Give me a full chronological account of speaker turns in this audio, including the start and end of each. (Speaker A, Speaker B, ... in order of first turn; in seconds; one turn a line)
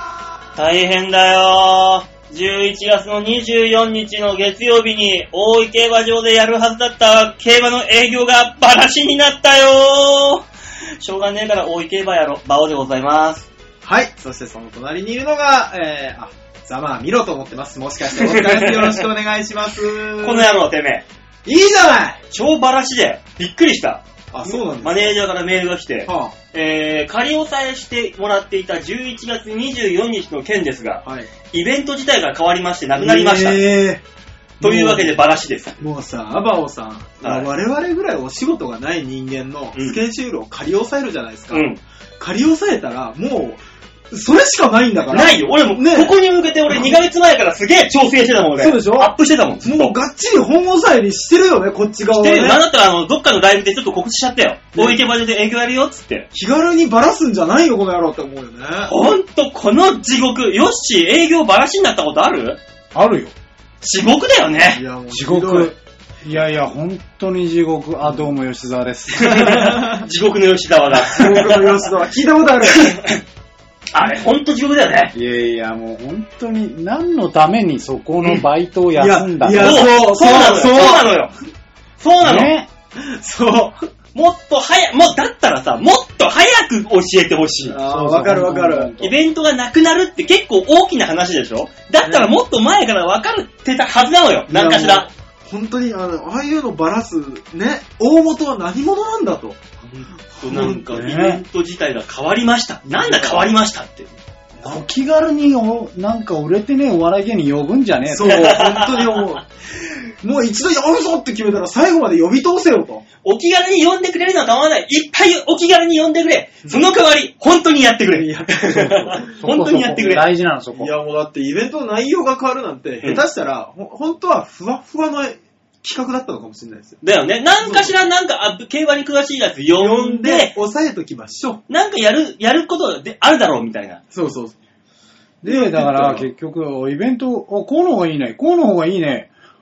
Speaker A: 0.6-10.4
Speaker A: 11.0-13.5
Speaker B: 13.8-20.5
Speaker A: 18.1-19.0
Speaker A: 20.2-21.0
Speaker B: 21.4-22.2
Speaker A: 22.3-33.6
Speaker B: 24.3-25.2
Speaker B: 26.1-26.3
Speaker B: 31.0-31.3
Speaker B: 33.0-34.0
Speaker B: 34.6-35.2
Speaker A: 34.6-35.8
Speaker B: 35.8-41.7
Speaker A: 37.2-37.5
Speaker A: 39.7-40.0
Speaker A: 41.5-41.8
Speaker B: 42.2-46.1
Speaker A: 45.1-49.9
Speaker B: 46.7-47.0
Speaker B: 48.6-52.6
Speaker A: 52.1-56.3
Speaker B: 54.7-55.0
Speaker B: 56.3-58.9
Speaker A: 58.9-62.6
Speaker C: 62.9-63.3
Speaker A: 63.8-64.8
Speaker B: 64.7-65.7
Speaker C: 65.1-69.7
Speaker B: 68.0-68.3
Speaker A: 69.1-71.9
Speaker B: 69.3-70.0
Speaker B: 71.0-72.9
Speaker A: 72.6-73.2
Speaker A: 73.9-75.1
Speaker C: 75.1-79.9
Speaker B: 79.0-81.1
Speaker A: 79.5-81.3
Speaker A: 82.0-82.5
Speaker C: 82.2-82.7
Speaker B: 83.0-83.8
Speaker A: 84.1-87.8
Speaker B: 87.7-88.9
Speaker C: 87.8-89.1
Speaker A: 89.0-95.1
Speaker B: 92.0-92.3
Speaker B: 94.5-99.6
Speaker A: 99.8-104.1
Speaker B: 100.4-101.0
Speaker C: 100.9-101.4
Speaker B: 102.9-103.5
Speaker B: 104.6-104.8
Speaker C: 104.6-108.5
Speaker B: 108.1-113.0
Speaker A: 108.2-109.2
Speaker A: 113.2-120.2
Speaker B: 118.1-119.4
Speaker C: 119.4-120.9
Speaker B: 120.7-127.0
Speaker A: 127.0-130.5
Speaker B: 127.6-127.9
Speaker B: 129.8-131.6
Speaker A: 131.7-134.0
Speaker B: 134.1-134.5
Speaker B: 135.4-136.3
Speaker C: 135.4-139.3